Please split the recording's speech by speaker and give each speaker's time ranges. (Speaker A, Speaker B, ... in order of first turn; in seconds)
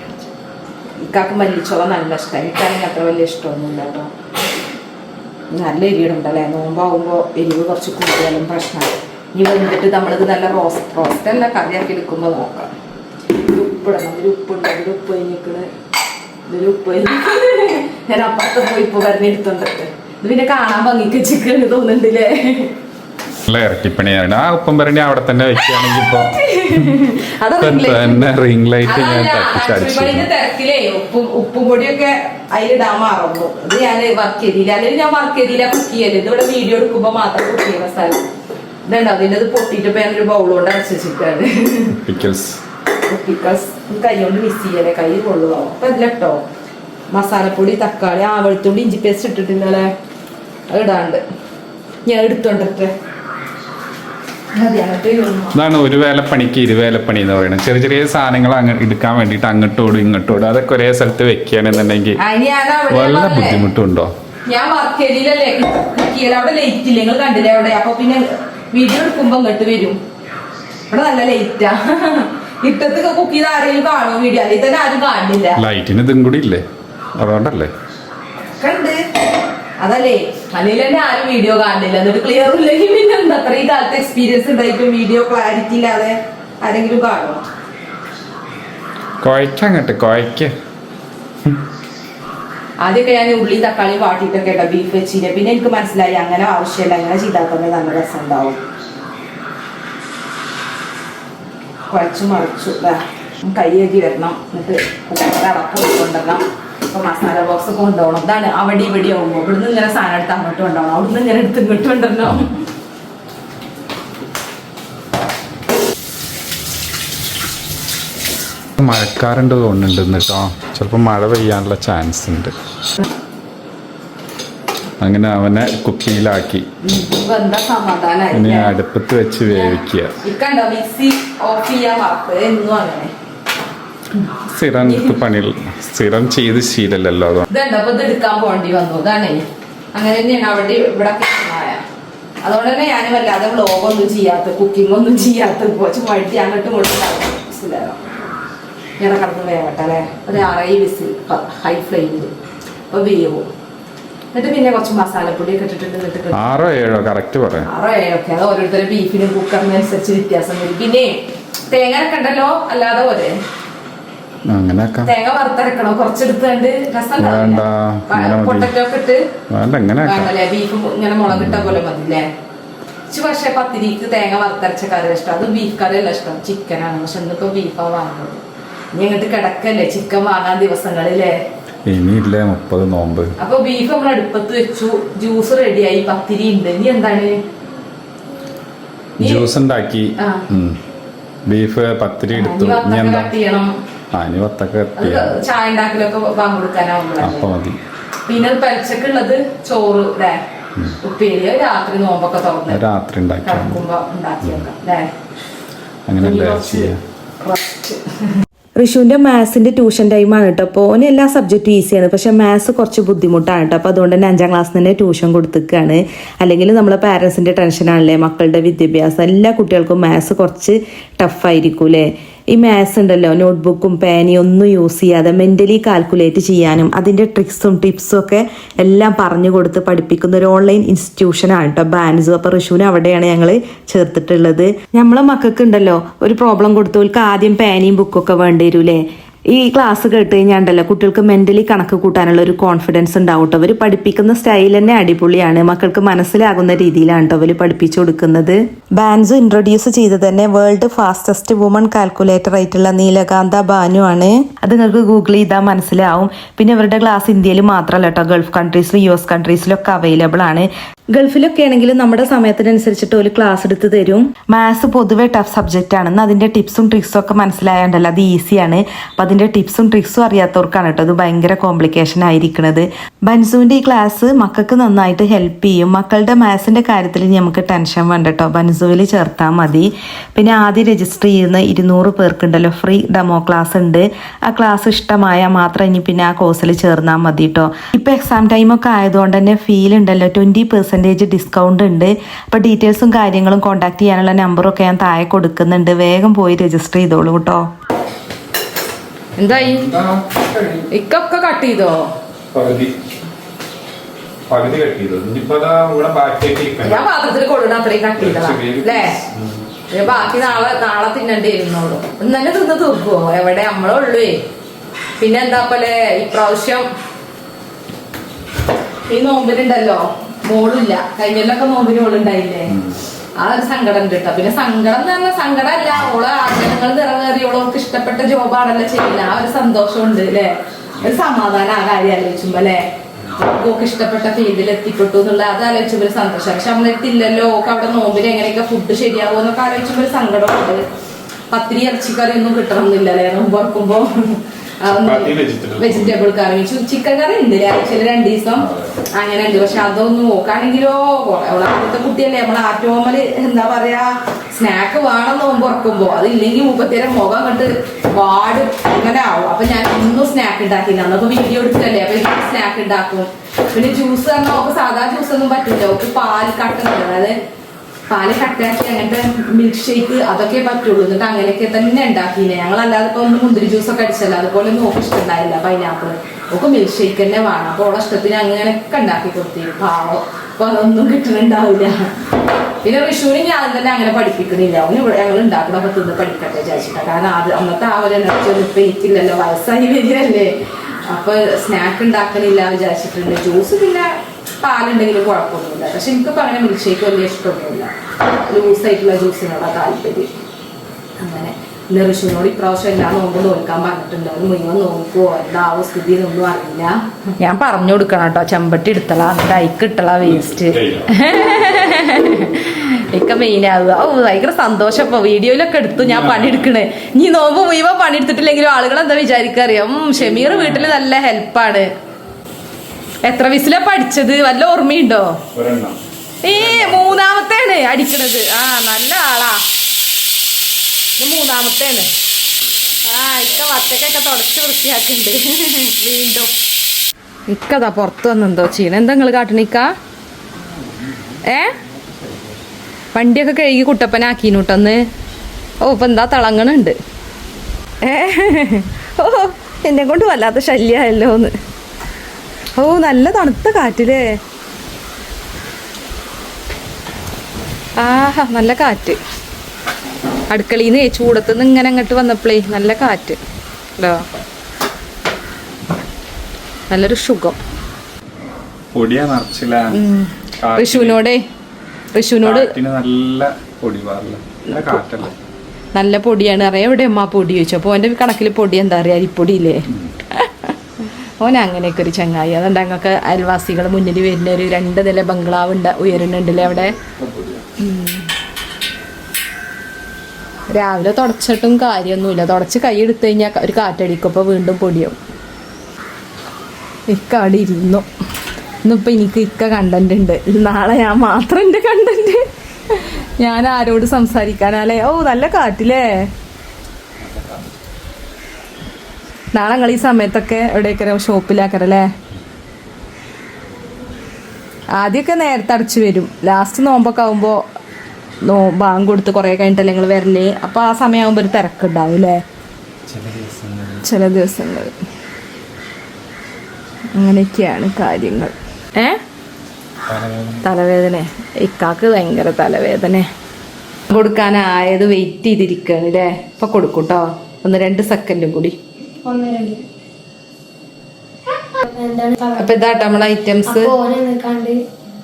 Speaker A: 1.0-4.1, 5.5-12.7, 13.3-15.7, 16.5-22.7, 25.8-28.3, 28.8-38.2, 38.9-42.0, 43.1-46.4, 47.1-49.9, 50.7-51.2, 52.0-52.9, 54.5-55.6, 62.2-63.6, 64.5-70.0, 70.9-75.6, 78.5-79.0, 79.8-87.4, 92.8-98.6, 101.9-112.6, 126.8-128.7, 129.5-133.1, 134.8-135.2, 137.5-141.8, 142.4-148.0, 149.0-152.3, 152.9-153.5, 154.3-156.6, 157.7-161.1, 161.7-163.4, 165.0-169.2, 170.0-172.3, 173.1-178.4, 178.9-181.4, 183.4-187.4, 189.2-189.5, 190.2-190.4, 192.3-193.7, 195.0-197.5, 198.2-200.4, 201.0-202.8, 203.4-205.1, 206.2-208.1, 221.3-222.0, 222.5-224.8, 235.0-235.6, 236.9-237.3, 299.4-299.8, 300.9-302.1, 306.8-309.2, 309.9-314.4, 315.2-316.9, 319.1-322.8, 323.4-340.8, 341.5-367.4, 368.1-381.9, 382.8-394.1, 394.6-397.9, 398.4-400.3, 401.2-421.9, 423.2-425.4, 426.4-429.6, 431.2-432.1, 433.1-436.5, 437.5-439.9, 441.4-441.7, 443.1-445.0, 445.8-446.9, 448.0-451.5, 452.8-454.4, 458.0-459.2, 460.5-463.4, 464.0-464.2, 466.9-467.6, 469.9-471.4, 472.1-472.7, 474.7-475.0, 475.9-486.9, 487.8-488.3, 490.7-495.2, 497.1-498.1, 498.8-506.3, 509.5-512.1, 515.0-517.6, 518.4-522.4, 524.0-524.9, 527.1-529.2, 530.6-533.3, 534.1-538.7, 542.6-543.9
Speaker B: 23.5-26.9, 27.6-30.3, 42.0-42.6, 55.5-62.2, 62.9-64.1, 75.6-76.6, 77.2-77.7, 89.2-90.5, 118.8-122.5, 125.0-126.6, 128.3-130.1, 134.5-137.5, 156.3-157.7, 164.5-165.1, 167.2-168.7, 169.5-170.3, 171.3-171.8, 181.8-183.3, 189.2-190.8, 191.5-193.3, 194.1-195.4, 197.2-197.8, 202.7-203.8, 206.1-207.0, 299.4-300.9, 302.5-302.9, 304.5-307.0, 308.2-310.6, 344.9-346.1, 348.6-349.0, 410.2-411.1, 416.0-416.7, 420.2-420.9, 425.5-427.2, 440.7-442.5, 468.9-470.0, 470.6-471.2, 472.4-475.3, 487.1-487.6, 507.2-507.6, 523.1-524.0, 530.1-530.6
Speaker C: 208.8-222.0, 222.6-239.0, 239.6-297.6
Speaker D: 539.2-539.8, 541.7-543.0, 543.7-544.8